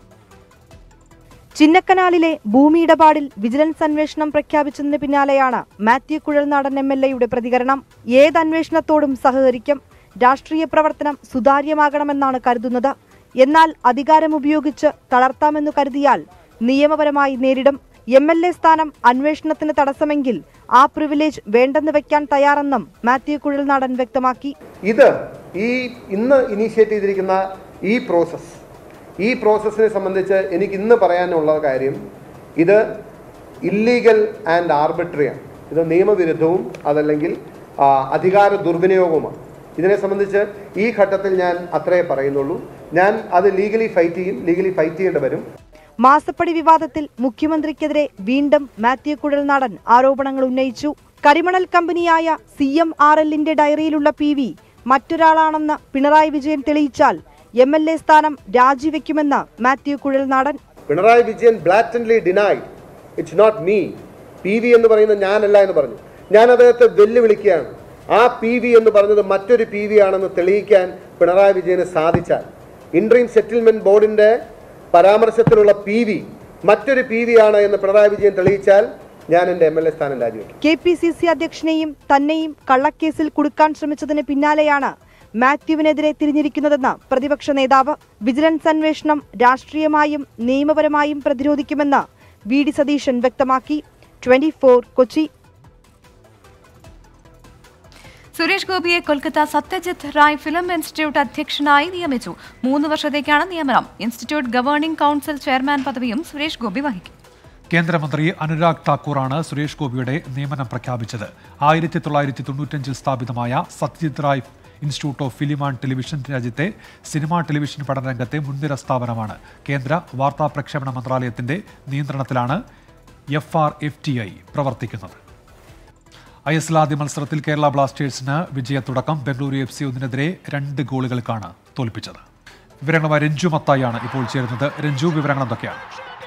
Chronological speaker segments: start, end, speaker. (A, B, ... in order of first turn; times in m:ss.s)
0:01.6-0:24.5 A
0:24.9-0:28.6 B
0:29.2-0:32.0 B
0:32.6-0:32.8 B
0:33.6-0:45.4 B
0:46.0-1:00.6 A
1:00.9-1:14.3 B
1:14.9-1:20.5 B
1:20.6-1:35.3 A
1:38.3-1:47.1 C
1:47.7-2:02.6 D
2:03.3-2:05.2 D
2:06.5-2:12.2 D
2:12.8-2:15.8 D